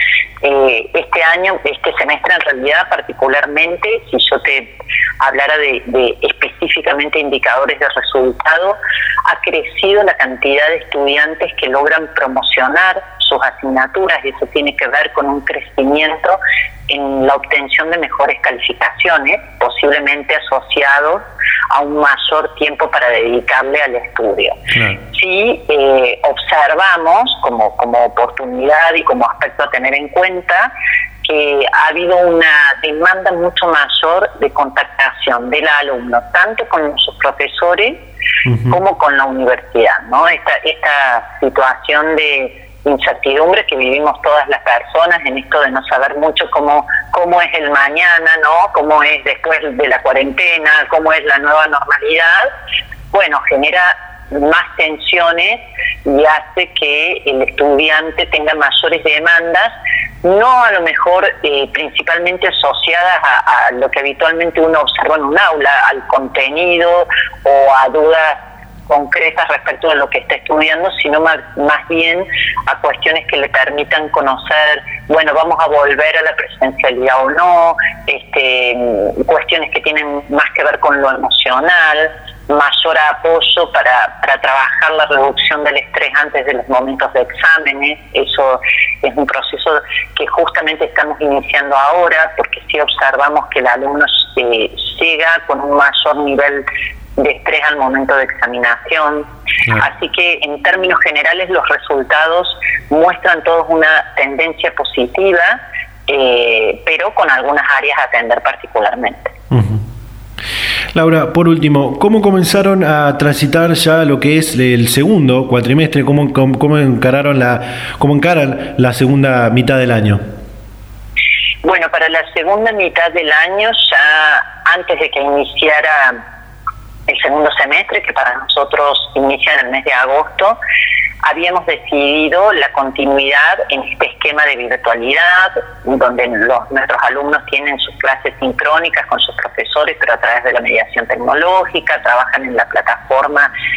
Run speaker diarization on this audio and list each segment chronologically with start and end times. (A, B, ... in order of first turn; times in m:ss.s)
0:00.4-0:24.6 A
0:24.7-0:25.0 B
0:25.1-0:30.7 A
0:31.2-0:38.0 A
0:38.4-0:38.8 B
0:38.7-0:52.5 A
0:53.1-1:36.6 A
1:37.2-1:49.3 A
1:49.5-1:49.8 B
1:50.9-2:00.2 B
2:01.6-2:06.2 A
2:07.1-2:10.6 A
2:11.2-2:23.5 A